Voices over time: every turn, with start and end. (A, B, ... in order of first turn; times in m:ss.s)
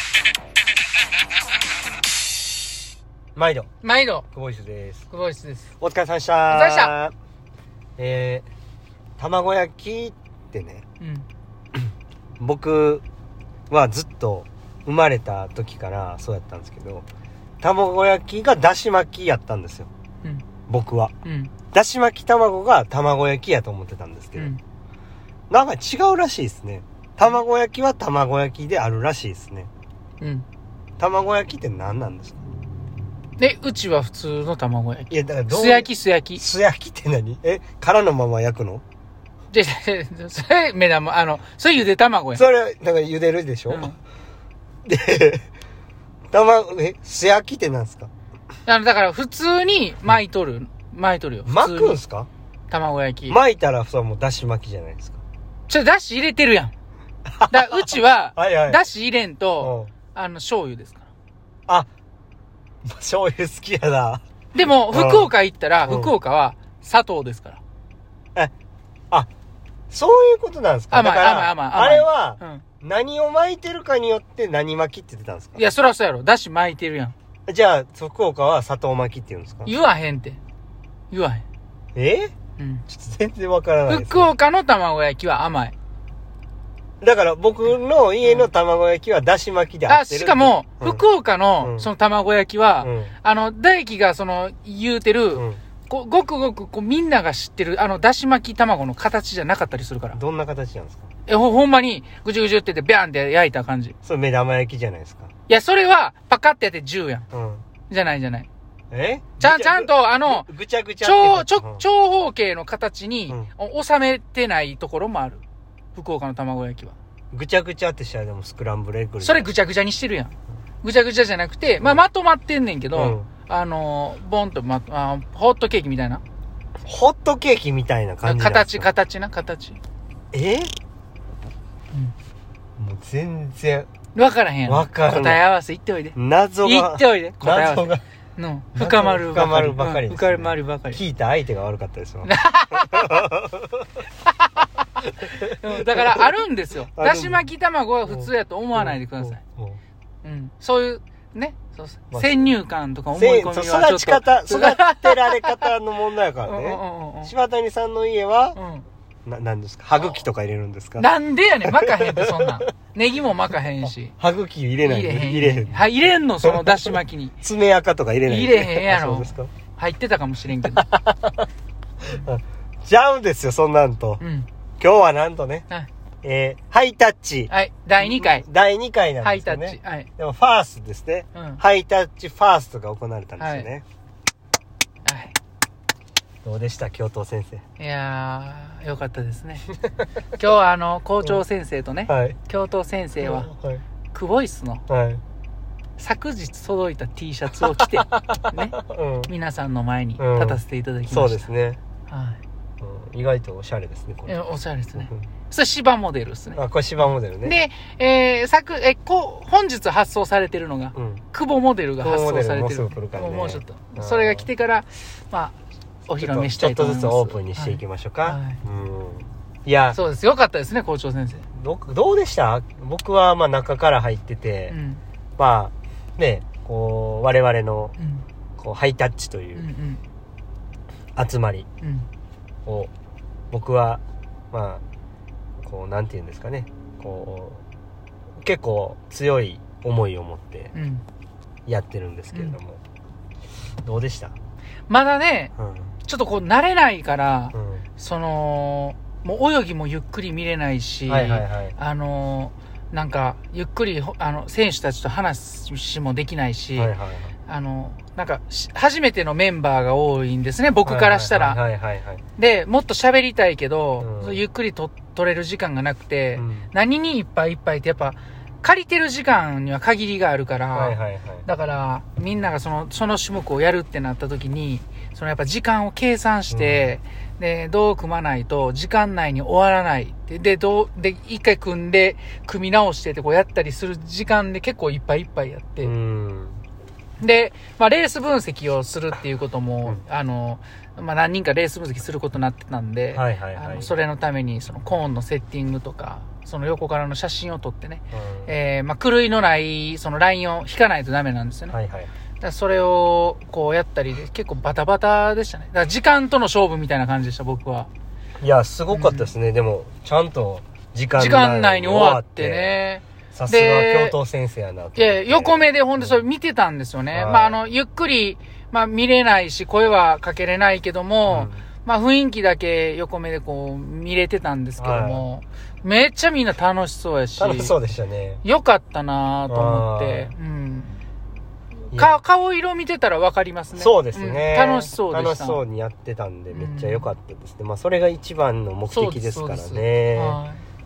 0:03.4-0:03.7 A
0:03.8-0:04.2 B
0:04.3-0:05.0 A
0:05.1-0:05.7 B
0:05.8-0:07.1 A
0:06.5-0:06.9 B
0:08.0-0:08.4 A
0:09.2-0:10.8 A
0:11.0-0:11.2 B
0:12.4-0:13.0 A
0:13.7-0:17.0 A
0:17.6-0:19.9 A
0:20.7-0:21.1 A
0:21.2-0:21.5 B
0:21.7-0:24.5 A
0:25.5-0:29.7 A
0:31.0-0:32.5 A
0:33.4-0:36.4 B
0:35.1-0:38.8 A
0:39.5-0:42.4 B
0:42.3-0:43.9 A
0:43.7-0:44.0 B
0:44.8-0:45.4 A
0:46.3-0:48.1 A
0:48.6-0:52.0 B
0:51.4-0:52.3 A
0:52.7-0:53.4 B
0:53.3-0:55.2 A
0:55.7-0:56.7 B
0:57.3-0:58.8 A
0:57.5-1:01.1 B
0:59.6-0:59.9 A
1:02.8-1:04.2 A
1:04.5-1:07.6 B
1:04.9-1:05.3 A
1:05.8-1:06.1 A
1:09.9-1:15.6 A
1:10.9-1:12.6 B
1:15.5-1:17.1 B
1:17.5-1:19.7 A
1:19.6-1:20.4 B
1:21.1-1:21.4 B
1:21.9-1:22.3 A
1:22.6-1:22.8 B
1:22.9-1:24.3 A
1:23.8-1:25.7 B
1:27.0-1:31.0 A
1:28.2-1:28.5 B
1:29.9-1:40.2 B
1:31.6-1:31.9 A
1:32.8-1:33.1 A
1:35.3-1:35.6 A
1:40.1-1:41.1 A
1:41.3-1:43.9 B
1:44.0-1:45.3 A
1:45.5-1:47.3 B
1:47.3-1:47.6 A
1:47.9-1:48.5 B
1:48.9-1:51.8 A
1:49.4-1:50.5 B
1:51.0-1:55.4 B
1:55.9-1:56.9 B
1:57.3-1:59.5 A
1:59.2-2:06.2 B
2:02.9-2:03.3 A
2:06.8-2:08.9 A
2:08.2-2:09.8 B
2:10.3-2:10.7 A
2:12.8-2:13.9 A
2:14.1-2:21.0 B
2:14.6-2:15.4 A
2:16.1-2:18.0 A
2:18.7-2:23.8 A
2:22.2-2:23.3 B
2:24.2-2:29.4 B
2:25.2-2:26.3 A
2:26.8-2:27.4 A
2:28.0-2:29.8 A
2:30.2-2:35.7 B
2:32.1-2:32.5 A
2:33.1-2:38.6 A
2:36.4-2:37.3 B
2:38.6-2:38.8 B
2:39.2-2:41.1 A
2:41.0-2:44.1 B
2:41.6-2:42.6 A
2:43.8-2:45.9 A
2:44.8-2:47.3 B
2:46.4-2:49.5 A
2:48.2-2:50.8 B
2:50.7-2:51.5 A
2:52.0-2:54.2 A
2:54.2-2:54.5 B
2:54.8-2:55.7 A
2:56.2-3:03.8 A
2:57.5-2:58.4 B
2:59.2-3:00.1 B
3:01.3-3:01.6 B
3:03.4-3:03.7 B
3:05.0-3:05.4 B
3:06.4-3:07.6 A
3:07.8-3:09.7 B
3:10.3-3:13.5 B
3:12.1-3:12.4 A
3:13.2-3:13.8 A
3:14.1-3:14.8 B
3:14.9-3:15.2 A
3:16.0-3:21.5 B
3:17.8-3:19.3 A
3:20.2-3:21.8 A
3:22.1-3:22.4 B
3:22.8-3:24.4 A
3:24.3-3:38.6 B
3:26.5-3:27.6 A
3:30.9-3:31.2 A
3:32.0-3:34.5 A
3:36.2-3:40.0 A
3:39.9-3:41.4 B
3:41.5-3:44.7 A
3:44.7-3:45.0 B
3:45.4-3:47.9 A
3:48.0-3:48.2 B
3:48.6-3:49.7 A
3:49.5-3:50.0 B
3:51.2-3:51.7 A
3:51.8-3:52.1 B
3:52.6-3:52.9 A
3:53.5-3:54.8 A
3:55.6-3:57.6 A
3:58.4-4:00.7 A
4:00.7-4:01.0 B
4:01.6-4:02.8 A
4:03.8-4:04.4 A
4:04.9-4:05.5 B
4:05.6-4:05.9 A
4:06.0-4:21.6 B
4:07.5-4:07.8 A
4:11.1-4:11.8 A
4:16.8-4:17.3 A
4:20.8-4:22.2 A
4:22.4-4:45.9 B
4:24.0-4:24.4 A
4:26.4-4:26.7 A
4:30.7-4:31.4 A
4:36.5-4:36.9 A
4:45.8-4:46.6 A
4:47.2-5:01.8 B
4:53.1-4:53.9 A
4:58.1-4:58.5 A
5:01.7-5:02.1 A
5:02.4-5:07.9 B
5:08.4-5:16.2 A
5:08.9-5:09.3 B
5:11.2-5:14.2 B
5:15.0-5:27.7 B
5:17.1-5:17.6 A
5:21.3-5:21.6 A
5:24.8-5:25.2 A
5:27.4-5:28.4 A
5:28.4-5:31.0 B
5:29.5-5:30.3 A
5:31.9-5:32.2 A
5:31.9-5:35.6 B
5:33.7-5:40.4 A
5:36.5-5:37.1 B
5:38.9-5:40.6 B